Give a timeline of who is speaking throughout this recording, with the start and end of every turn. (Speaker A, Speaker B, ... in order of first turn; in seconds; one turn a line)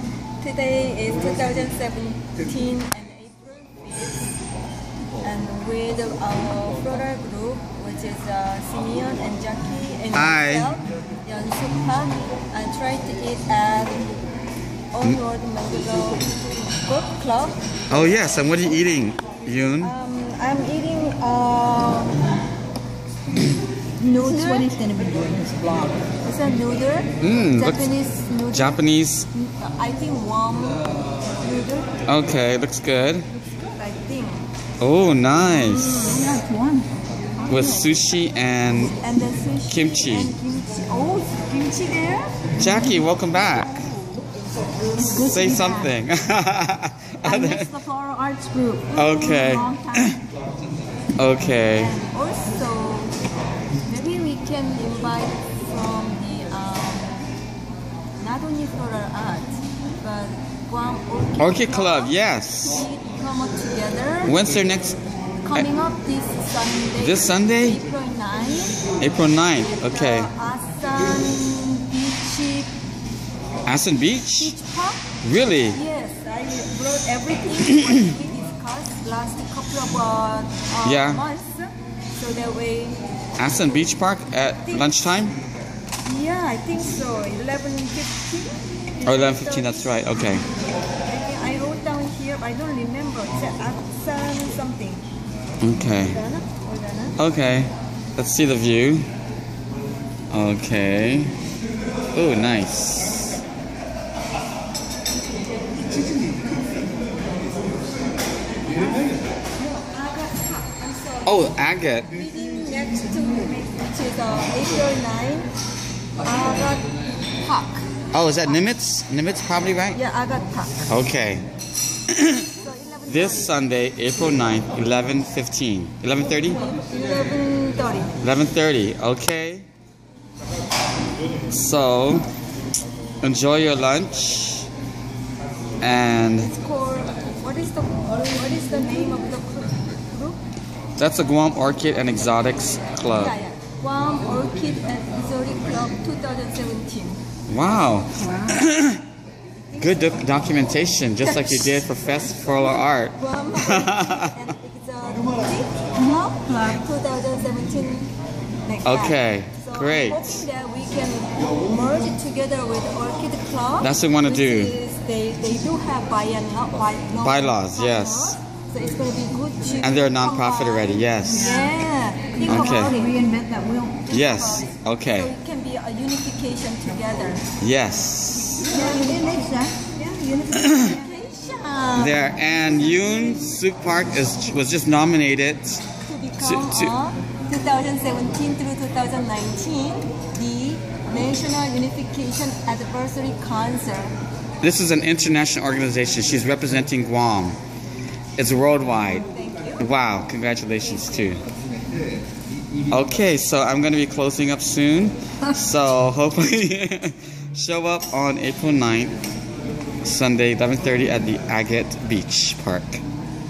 Speaker A: 0.4-4.3
Speaker A: 5.2-14.1
Speaker B: 10.1-10.7
Speaker A: 14.9-17.6
Speaker B: 17.9-19.9
Speaker A: 19.8-22.2
Speaker A: 24.0-24.7
Speaker C: 24.0-26.0
Speaker A: 26.2-31.9
Speaker B: 27.2-27.9
Speaker B: 28.5-29.3
Speaker B: 32.0-33.3
Speaker A: 33.4-34.5
Speaker B: 34.8-36.0
Speaker A: 35.4-36.3
Speaker C: 36.0-37.9
Speaker B: 37.5-38.9
Speaker A: 38.8-42.5
Speaker B: 39.7-40.3
Speaker B: 42.6-43.8
Speaker C: 45.0-45.9
Speaker B: 45.2-47.7
Speaker C: 47.2-50.1
Speaker B: 48.9-50.2
Speaker B: 51.2-52.0
Speaker A: 51.7-53.1
Speaker A: 53.8-57.2
Speaker A: 58.2-64.4
Speaker B: 61.4-62.9
Speaker B: 64.2-65.0
Speaker A: 65.4-68.8
Speaker B: 67.0-67.8
Speaker B: 69.0-70.3
Speaker A: 69.6-72.7
Speaker B: 73.7-74.5
Speaker A: 74.4-75.1
Speaker B: 75.2-75.8
Speaker A: 75.7-83.0
Speaker B: 80.8-81.2
Speaker B: 83.4-85.4
Speaker A: 84.6-84.9
Speaker A: 86.0-90.0
Speaker B: 89.0-90.5
Speaker A: 91.0-95.0
Speaker B: 95.6-96.2
Speaker A: 96.0-97.2
Speaker B: 97.2-99.1
Speaker B: 100.3-101.3
Speaker B: 102.1-103.4
Speaker A: 109.6-111.5
Speaker B: 111.2-112.1
Speaker A: 112.1-115.5
Speaker A: 116.2-118.6
Speaker B: 118.1-120.0
Speaker A: 119.9-120.8
Speaker B: 120.9-121.5
Speaker B: 122.1-122.5
Speaker A: 122.5-123.5
Speaker B: 123.1-126.6
Speaker A: 126.4-128.2
Speaker B: 128.2-129.7
Speaker B: 131.5-132.3
Speaker B: 133.2-134.7
Speaker B: 135.8-136.5
Speaker A: 136.4-140.4
Speaker C: 138.1-139.2
Speaker B: 141.0-143.3
Speaker A: 143.1-147.2
Speaker B: 147.5-149.0
Speaker C: 148.2-148.6
Speaker A: 149.6-150.2
Speaker B: 149.8-154.3
Speaker A: 151.2-151.8
Speaker A: 153.2-158.1
Speaker C: 156.0-156.8
Speaker A: 158.6-173.2
Speaker B: 158.8-160.4
Speaker B: 163.8-164.8
Speaker B: 167.2-168.4
Speaker B: 169.8-171.6
Speaker C: 171.2-171.8
Speaker C: 172.3-174.1
Speaker B: 172.5-172.9
Speaker A: 174.1-177.5
Speaker B: 174.1-175.3
Speaker B: 177.6-178.8
Speaker C: 178.6-181.0
Speaker A: 178.6-179.6
Speaker B: 180.5-180.9
Speaker A: 180.5-183.4
Speaker B: 181.9-185.8
Speaker A: 186.0-194.1
Speaker B: 186.4-186.9
Speaker B: 194.6-197.6
Speaker B: 198.3-199.2
Speaker A: 199.2-199.9
Speaker B: 199.8-201.4
Speaker B: 202.9-209.1
Speaker B: 210.0-213.0